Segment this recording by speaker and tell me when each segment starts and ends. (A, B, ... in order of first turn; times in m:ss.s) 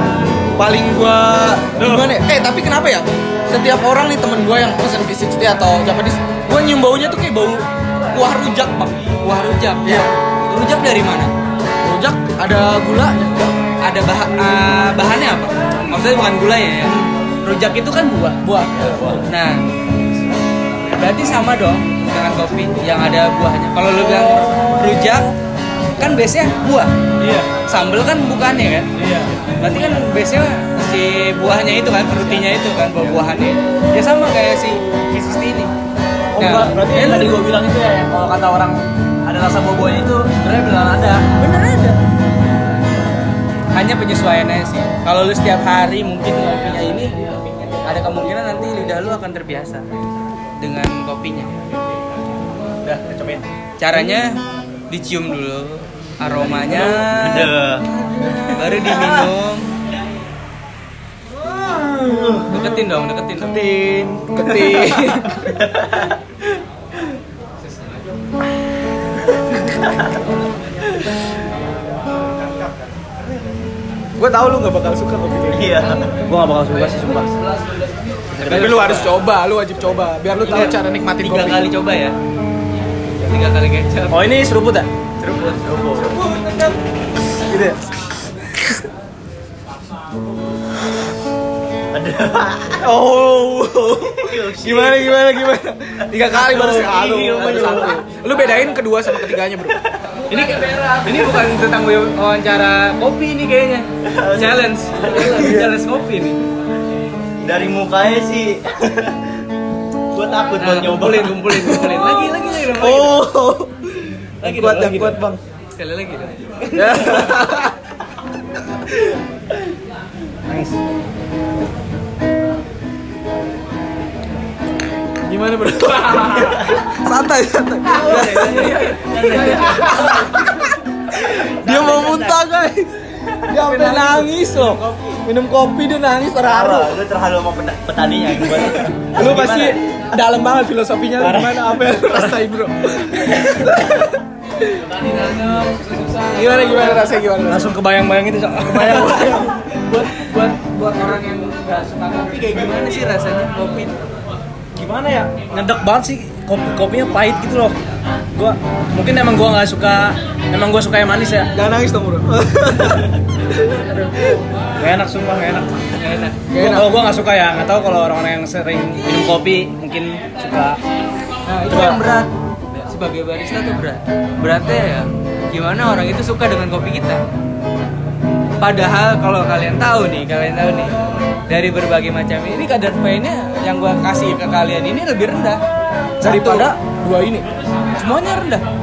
0:00.6-0:08.9 A
0:01.8-0:02.1 B
0:09.2-0:11.3 C
0:11.8-0:13.6 A
0:13.8-0:18.4 C
0:18.4-0:19.3 A
0:19.3-0:19.6 C
0:20.9-0:25.3 C
0:24.0-0:24.7 A
0:26.0-0:26.9 C
0:27.2-0:27.5 B
0:27.7-0:28.9 C
0:29.0-0:29.3 B
0:29.6-0:35.7 C
0:36.3-0:41.3 B
0:36.4-0:37.4 C
0:41.3-0:42.0 C
0:43.7-0:47.1 C
0:47.8-0:49.9 C
0:50.6-0:51.5 C
0:52.8-0:53.5 B
0:53.8-0:57.2 C
0:56.3-0:57.5 B
0:57.1-0:57.9 D
0:58.2-0:59.0 A
0:58.5-0:59.7 C
0:58.9-0:59.3 D
1:01.6-1:02.0 B
1:02.0-1:02.5 D
1:02.5-1:03.6 C
1:03.5-1:03.9 B
1:03.6-1:05.6 A
1:04.4-1:05.2 C
1:05.6-1:06.1 D
1:07.7-1:08.0 C
1:14.2-1:16.0 A
1:15.5-1:16.1 D
1:16.2-1:17.3 B
1:16.9-1:19.2 C
1:18.4-1:18.7 D
1:18.4-1:21.7 A
1:20.4-1:22.2 C
1:23.2-1:24.4 C
1:24.1-1:24.9 B
1:25.2-1:25.7 C
1:25.6-1:26.2 D
1:27.4-1:27.8 B
1:31.9-1:32.9 D
1:32.8-1:39.8 A
1:34.1-1:35.2 D
1:36.0-1:36.7 D
1:36.7-1:37.9 C
1:37.3-1:38.0 D
1:40.3-1:46.4 C
1:40.3-1:41.4 B
1:44.0-1:45.5 D
1:45.2-1:45.7 A
1:47.4-1:49.3 D
1:50.1-1:51.4 D
1:50.6-1:53.2 C
1:51.5-1:53.8 A
1:54.4-1:55.2 C
1:54.4-1:55.4 A
1:55.7-1:57.2 C
1:56.7-1:57.7 A
2:00.5-2:00.7 B
2:05.3-2:12.9 A
2:07.9-2:10.2 D
2:08.0-2:09.9 C
2:11.7-2:12.2 B
2:13.5-2:17.0 A
2:13.7-2:15.0 B
2:16.4-2:19.8 D
2:18.3-2:24.2 A
2:21.2-2:22.4 B
2:25.0-2:26.8 C
2:26.3-2:27.7 A
2:27.5-2:29.6 B
2:28.6-2:30.6 A
2:30.1-2:34.0 C
2:34.7-2:37.8 B
2:38.3-2:41.5 B
2:41.5-2:43.2 A
2:43.8-2:44.1 A
2:44.8-2:45.7 B
2:45.9-2:46.4 C
2:46.5-2:46.9 A
2:46.5-2:50.8 B
2:51.4-2:57.2 C
2:51.7-2:52.0 B
2:58.6-3:00.9 C
3:01.5-3:05.6 C
3:06.2-3:07.5 A
3:06.2-3:06.7 C
3:08.0-3:08.6 C